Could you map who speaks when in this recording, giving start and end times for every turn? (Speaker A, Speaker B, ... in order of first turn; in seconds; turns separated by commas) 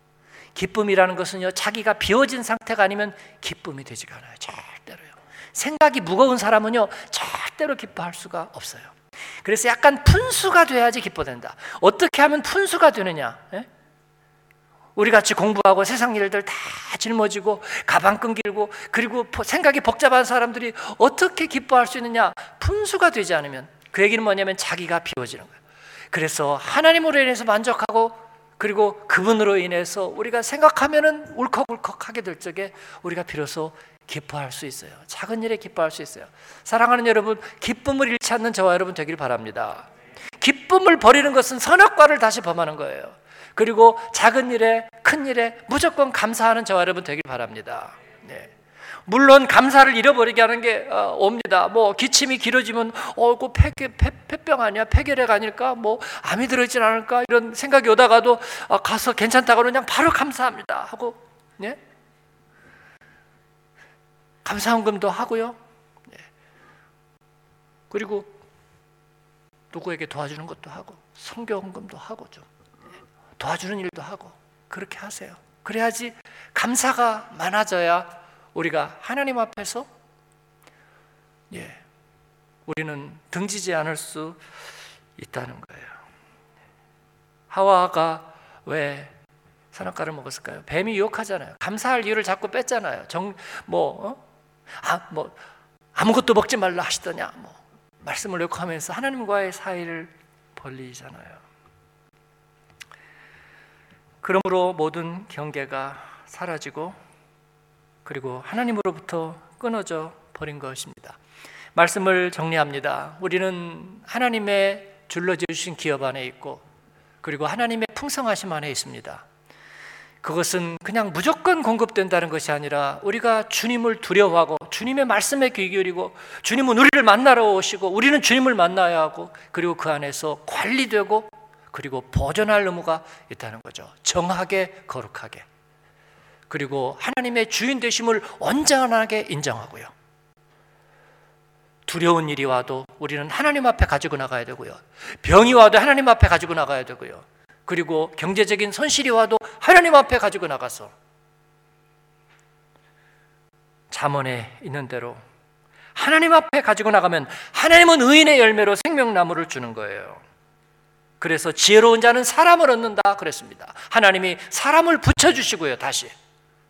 Speaker A: 0.6-13.7, Speaker A: 14.9-25.6, Speaker A: 26.1-39.9, Speaker A: 40.4-48.5, Speaker A: 49.1-61.8, Speaker A: 64.5-65.6, Speaker A: 67.9-68.4, Speaker A: 69.7-72.5, Speaker A: 73.4-79.9, Speaker A: 81.5-81.8, Speaker A: 82.7-84.4, Speaker A: 85.2-86.0, Speaker A: 87.5-89.1, Speaker A: 89.7-94.2, Speaker A: 94.8-95.4, Speaker A: 96.0-101.4, Speaker A: 104.2-107.0, Speaker A: 108.0-111.2, Speaker A: 111.8-116.6, Speaker A: 117.2-119.2, Speaker A: 120.2-135.4, Speaker A: 136.5-139.9, Speaker A: 141.9-150.9, Speaker A: 153.9-155.2, Speaker A: 155.9-160.2, Speaker A: 161.2-166.1